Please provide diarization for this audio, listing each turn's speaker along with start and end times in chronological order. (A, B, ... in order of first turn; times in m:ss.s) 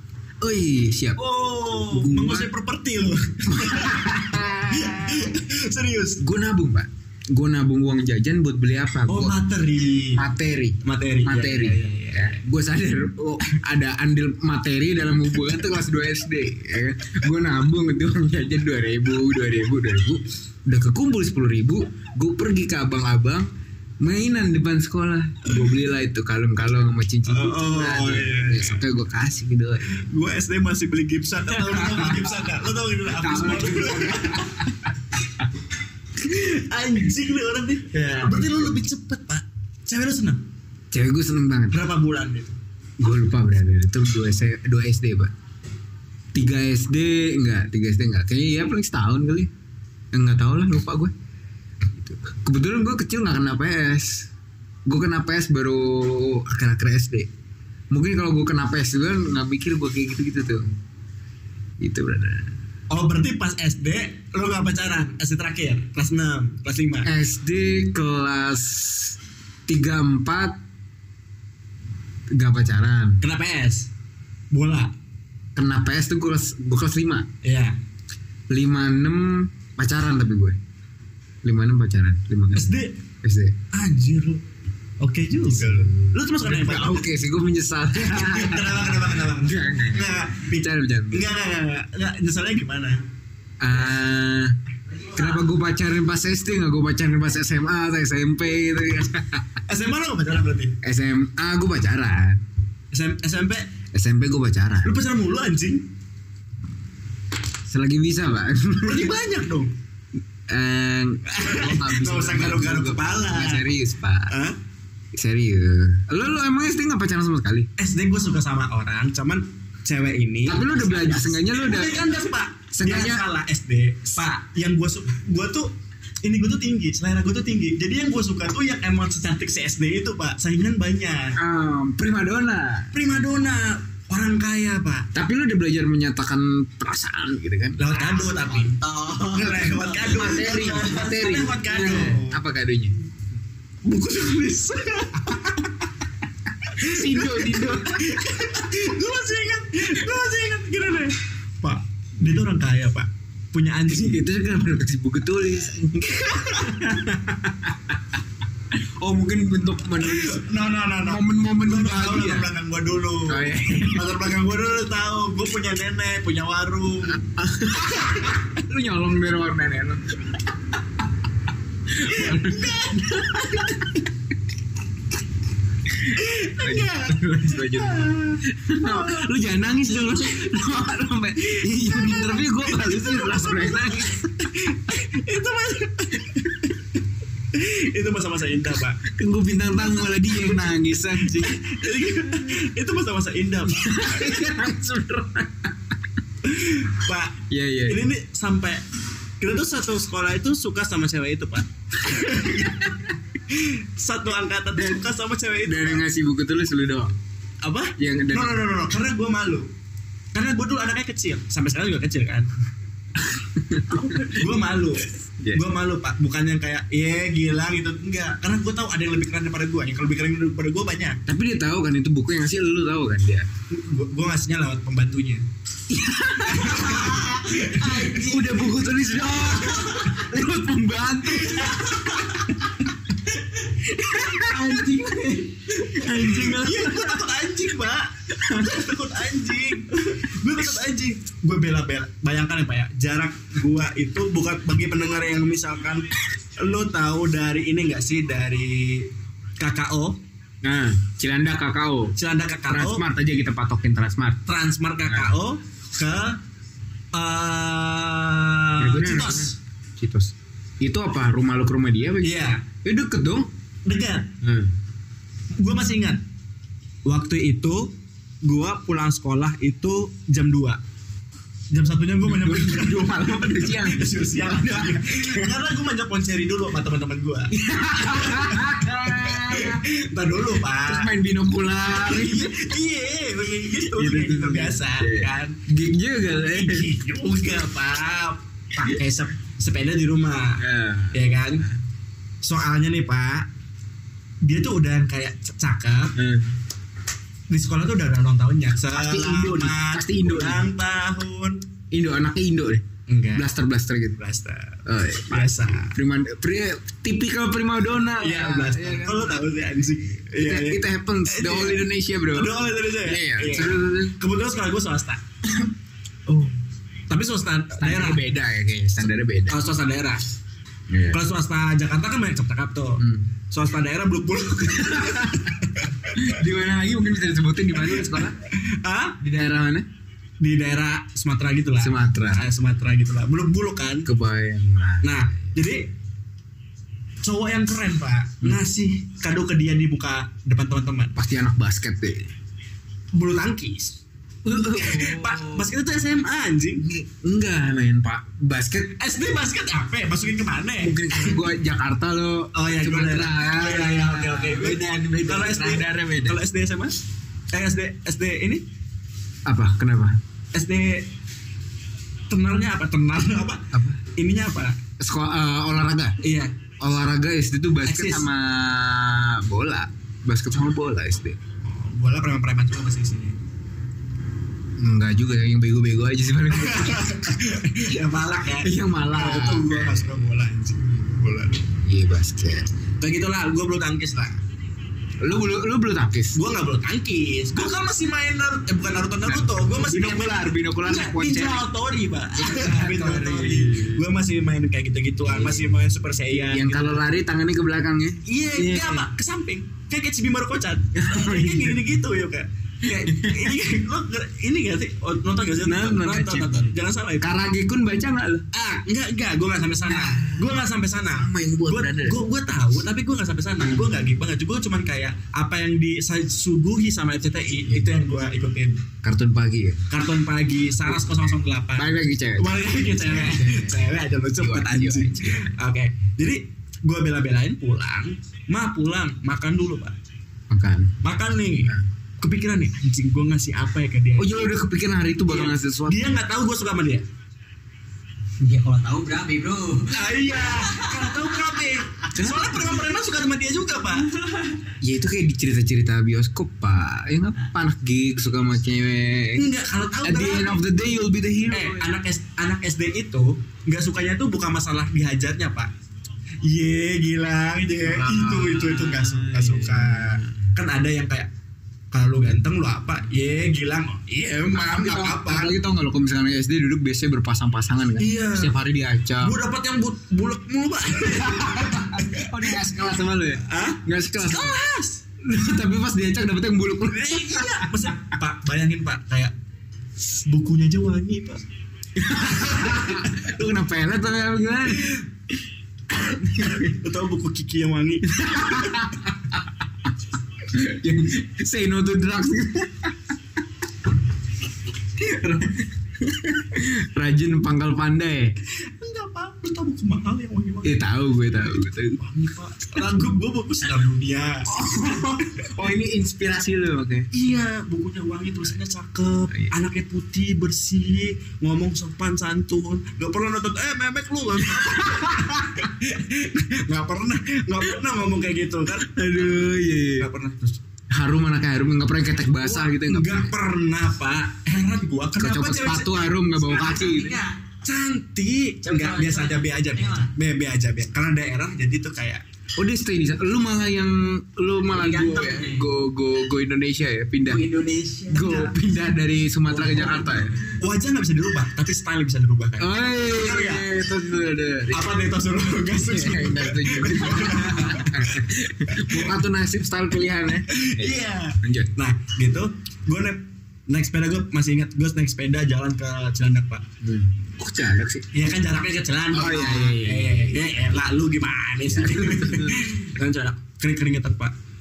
0:00.4-0:01.2 A
0:01.2-0:06.2 B
0:01.8-0:02.5 A
0:03.4-0:05.3 A
0:06.2-0:09.4 A
0:09.1-0:10.2 B
0:10.2-0:30.0 A
0:10.8-0:12.4 B
0:27.3-0:28.8 B
0:29.9-0:34.6 B
0:31.6-0:32.4 A
0:33.1-0:34.9 A
0:36.2-0:40.4 B
0:38.0-0:38.8 A
0:40.9-0:41.8 A
0:41.7-0:42.5 B
0:43.0-0:45.3 A
0:46.3-0:49.5 A
0:50.1-0:51.1 A
0:51.9-0:54.3 A
0:54.9-0:57.3 A
0:57.9-1:00.6 A
1:01.8-1:02.5 A
1:02.9-1:07.1 B
1:07.0-1:10.6 A
1:12.3-1:13.2 A
1:13.2-1:13.9 B
1:14.5-1:14.9 B
1:15.6-1:17.3 A
1:17.4-1:17.8 B
1:18.5-1:20.6 A
1:21.4-1:23.6 A
1:22.6-1:23.0 B
1:23.7-1:24.4 B
1:25.0-1:27.1 B
1:25.5-1:31.3 A
1:28.0-1:33.0 B
1:33.6-1:34.6 A
1:35.1-1:39.6 A
1:39.7-1:40.8 B
1:40.8-1:42.4 A
1:42.9-1:43.7 B
1:43.9-1:45.0 A
1:44.8-1:45.9 B
1:47.6-1:49.2 A
1:48.8-1:49.7 B
1:50.5-1:54.4 A
1:51.3-1:53.6 B
1:54.3-1:54.6 B
1:55.1-1:57.7 A
1:57.8-2:05.7 B
2:00.4-2:02.1 A
2:02.7-2:03.2 A
2:06.2-2:11.4 B
2:11.4-2:13.1 A
2:12.9-2:15.1 B
2:15.1-2:17.8 A
2:17.8-2:22.4 B
2:17.9-2:19.9 C
2:19.9-2:22.9 A
2:23.8-2:25.8 B
2:26.7-2:34.2 B
2:26.7-2:28.2 A
2:34.0-2:37.7 A
2:36.1-2:37.6 B
2:38.7-2:40.4 A
2:40.0-2:48.4 B
2:41.0-2:42.5 A
2:43.3-2:44.1 A
2:47.2-2:50.5 A
2:51.9-2:54.0 A
2:52.1-2:53.9 B
2:55.9-3:04.7 A
2:56.1-2:59.2 B
3:01.4-3:07.0 B
3:07.5-3:09.0 B
3:09.0-3:11.6 A
3:09.7-3:14.5 B
3:13.7-3:15.9 A
3:16.4-3:18.8 B
3:17.5-3:18.1 A
3:19.4-3:23.0 B
3:22.4-3:22.9 A
3:23.5-3:26.0 B
3:24.8-3:25.0 A
3:25.6-3:27.2 A
3:27.6-3:29.7 B
3:28.0-3:28.7 A
3:30.3-3:32.5 B
3:33.2-3:34.4 A
3:33.9-3:41.2 B
3:41.3-3:43.5 A
3:43.7-3:45.4 B
3:45.9-3:47.3 A
3:46.4-3:48.2 B
3:47.0-3:48.6 C
3:47.8-3:52.5 A
3:51.3-3:52.5 B
3:53.3-3:54.8 B
3:54.0-3:57.2 A
3:54.6-3:55.4 C
3:55.7-4:06.1 B
3:58.4-3:58.8 A
4:06.6-4:10.2 B
4:10.6-4:12.1 A
4:12.2-4:13.0 B
4:12.7-4:14.4 A
4:14.5-4:16.4 B
4:15.0-4:15.3 A
4:17.1-4:19.6 B
4:18.8-4:23.5 A
4:22.2-4:22.6 B
4:23.9-4:24.4 B
4:24.4-4:24.7 A
4:25.6-4:26.2 B
4:27.1-4:30.8 B
4:31.7-4:41.1 B
4:32.2-4:35.5 A
4:37.5-4:39.9 A
4:40.8-4:42.6 A
4:41.8-4:45.6 B
4:43.9-4:46.9 A
4:46.3-4:51.6 B
4:50.6-4:51.8 A
4:52.4-4:53.5 B
4:54.4-4:56.1 B
4:56.1-4:56.5 A
4:57.5-5:01.6 B
4:58.9-5:00.7 A
5:01.9-5:04.2 A
5:03.1-5:03.5 B
5:04.2-5:06.0 B
5:04.9-5:09.4 A
5:08.2-5:15.2 B
5:10.4-5:14.2 A
5:17.1-5:18.2 B
5:17.8-5:19.6 A
5:19.5-5:20.2 B
5:20.9-5:21.2 A
5:21.1-5:26.4 B
5:23.0-5:23.3 A
5:24.8-5:25.6 A
5:26.1-5:28.4 A
5:27.8-5:29.2 B
5:29.2-5:29.9 A
5:30.4-5:34.1 B
5:31.8-5:32.4 A
5:34.0-5:35.4 A
5:35.0-5:35.9 B
5:37.2-5:41.2 B
5:41.2-5:42.3 A
5:43.1-5:44.0 B
5:44.4-5:45.7 A
5:44.7-5:46.9 B
5:46.8-5:49.0 A
5:49.0-5:51.4 B
5:50.8-5:56.4 A
5:52.5-5:58.6 B
5:59.4-6:00.2 A
6:00.5-6:01.1 B
6:02.3-6:04.8 B
6:03.7-6:04.0 A
6:05.0-6:06.2 A
6:06.2-6:06.6 B
6:06.8-6:11.4 A
6:07.8-6:08.3 B
6:11.6-6:13.4 B
6:14.8-6:17.2 A
6:16.5-6:21.6 B
6:18.6-6:20.1 A
6:21.8-6:22.7 A
6:23.0-6:24.4 B
6:25.2-6:26.4 A
6:26.3-6:37.0 B
6:29.2-6:31.7 A
6:32.4-6:34.0 A
6:35.2-6:35.7 A
6:36.5-6:39.1 A
6:38.2-6:47.3 B
6:40.9-6:41.9 A
6:42.9-6:43.5 A
6:45.6-6:48.5 A
6:48.5-6:58.8 B
6:49.8-6:50.5 A
6:51.2-6:52.2 A
6:57.7-6:57.9 A
6:59.0-6:59.8 A
6:59.9-7:10.0 B
7:00.8-7:05.5 A
7:10.5-7:11.0 A
7:11.0-7:14.6 B
7:14.2-7:16.2 A
7:15.3-7:17.0 B
7:18.4-7:21.3 C
7:19.9-7:24.1 B
7:22.1-7:22.8 A
7:24.2-7:24.6 C
7:24.8-7:29.5 A
7:29.4-7:30.6 B
7:30.0-7:31.9 A
7:31.5-7:35.7 B
7:36.4-7:41.3 B
7:37.8-7:40.4 A
7:41.9-7:45.6 B
7:44.5-7:49.4 A
7:48.0-7:48.6 B
7:49.2-7:52.5 B
7:51.0-7:54.6 A
7:53.4-7:55.0 B
7:55.2-7:57.9 A
7:56.9-7:59.3 B
8:00.1-8:01.4 B
8:02.0-8:05.0 A
8:02.2-8:03.3 B
8:06.1-8:08.8 B
8:06.1-8:06.6 A
8:08.1-8:09.4 A
8:10.4-8:13.0 A
8:15.0-8:18.3 A
8:18.7-8:20.8 B
8:20.6-8:22.0 A
8:22.0-8:24.5 B
8:24.5-8:27.1 A
8:27.1-8:40.6 B
8:34.6-8:35.6 A
8:38.9-8:40.1 A
8:40.9-8:43.3 A
8:42.4-8:52.2 B
8:45.2-8:47.2 A
8:46.5-8:47.2 C
8:48.6-8:50.1 C
8:52.6-8:57.5 A
8:54.7-8:55.7 C
8:57.2-8:58.3 C
8:58.1-9:00.4 A
8:58.1-8:58.6 B
8:59.5-9:00.3 C
9:00.4-9:03.6 B
9:02.6-9:05.0 A
9:04.7-9:08.2 B
9:05.8-9:11.7 A
9:08.8-9:09.1 B
9:10.5-9:16.6 B
9:16.8-9:18.1 A
9:18.1-9:24.4 B
9:19.1-9:20.8 A
9:21.7-9:22.7 A